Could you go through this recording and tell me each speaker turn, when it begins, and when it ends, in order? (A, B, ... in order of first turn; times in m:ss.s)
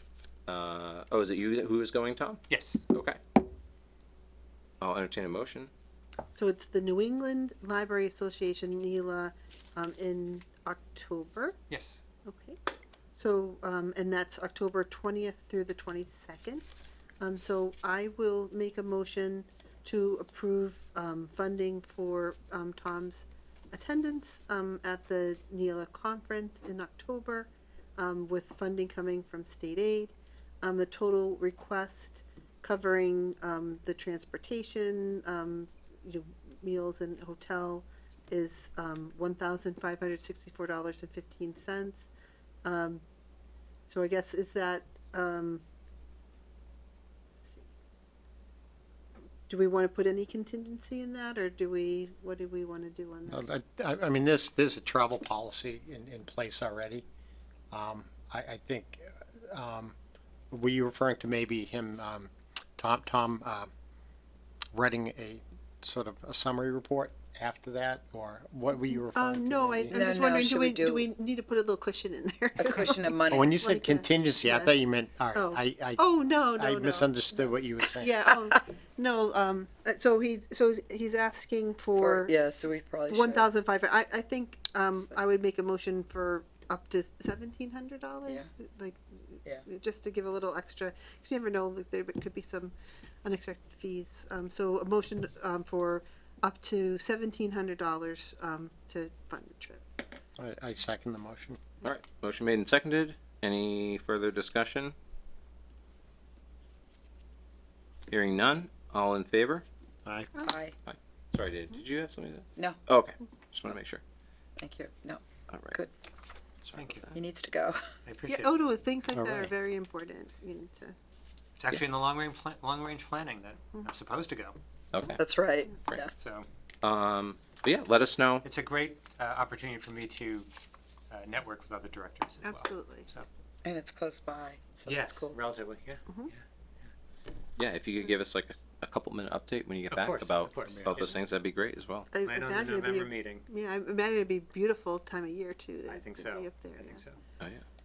0:00.5-0:03.2 A
0:02.5-0:02.8 B
0:04.8-0:05.7 A
0:06.3-0:11.6 C
0:11.7-0:12.0 B
0:12.2-0:12.6 C
0:13.1-0:16.6 C
0:17.2-0:42.1 C
0:42.6-0:43.0 C
0:43.9-0:45.6 C
0:49.5-0:53.5 C
0:53.3-0:57.0 D
0:57.7-1:00.0 D
1:00.5-1:03.7 D
1:04.7-1:10.0 D
1:08.8-1:14.7 C
1:09.9-1:11.1 E
1:12.6-1:13.6 E
1:13.3-1:16.0 D
1:15.3-1:22.3 C
1:16.5-1:18.2 D
1:22.0-1:23.5 E
1:23.1-1:39.8 C
1:28.2-1:28.5 E
1:40.4-1:41.6 D
1:41.8-1:44.9 A
1:48.1-1:49.6 A
1:50.0-1:50.3 D
1:50.4-1:50.8 E
1:50.8-1:54.0 A
1:54.6-1:55.9 E
1:55.5-1:55.8 A
1:56.6-1:57.1 A
1:56.7-1:57.1 B
1:57.1-1:58.4 E
1:58.0-1:58.6 B
1:58.3-2:01.0 C
1:59.1-1:59.5 D
2:01.6-2:05.2 B
2:04.9-2:05.2 A
2:05.2-2:06.1 E
2:06.1-2:06.5 B
2:06.8-2:08.4 A
2:08.4-2:10.5 B
2:11.1-2:13.3 B
2:12.4-2:13.1 C
2:13.6-2:15.4 E
2:14.8-2:16.9 B
2:17.6-2:22.1 A
2:19.9-2:21.2 B
2:20.7-2:21.1 D
2:22.1-2:27.0 C
2:22.2-2:23.4 B
2:25.9-2:27.2 B
2:27.4-2:27.6 A